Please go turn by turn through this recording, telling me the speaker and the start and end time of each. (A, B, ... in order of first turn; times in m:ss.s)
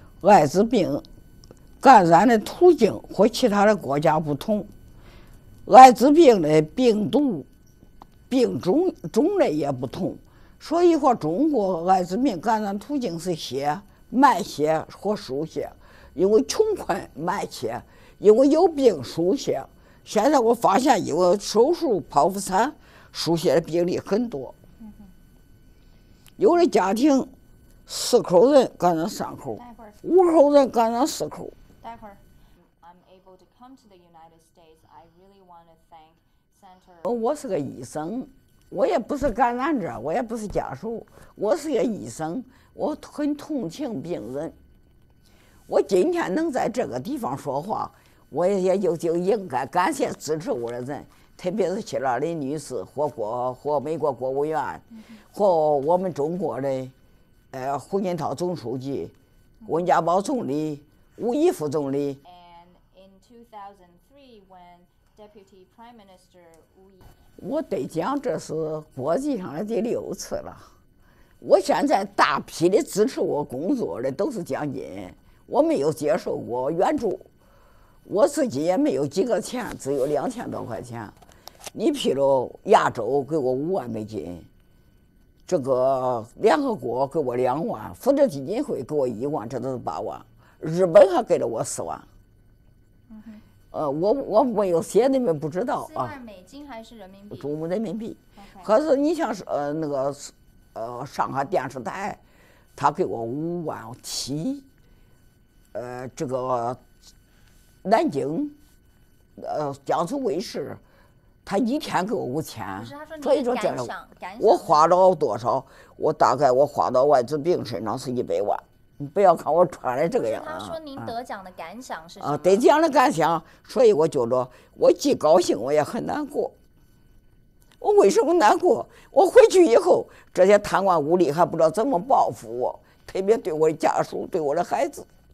0:00.2-0:01.0 A
0:01.8-0:04.7 A
0:05.6-0:07.5 A
0:08.3-0:24.6 A
0:24.8-0:25.1 B
0:26.4-0:27.3 A
0:27.9-0:31.6 A
0:29.5-0:30.0 B
0:31.8-0:37.1 B
0:37.0-0:44.6 A
0:45.7-0:56.9 A
0:54.9-0:55.2 B
0:57.5-0:59.1 A
0:59.6-0:59.9 B
0:59.6-1:02.2 A
1:02.2-1:07.1 B
1:07.4-1:10.7 A
1:11.4-1:17.3 A
1:18.0-1:21.1 A
1:21.7-1:24.5 A
1:25.5-1:32.1 A
1:33.1-1:33.4 B
1:33.7-1:36.2 A
1:35.8-1:37.6 B
1:37.3-1:42.2 A
1:38.3-1:38.7 B
1:42.8-1:44.6 A
1:45.7-1:46.8 A
1:47.8-1:48.6 A
1:49.4-1:50.8 A
1:51.4-2:01.1 A
1:52.8-1:54.8 B
2:00.1-2:02.7 B
2:02.2-2:06.5 A
2:07.8-2:15.1 A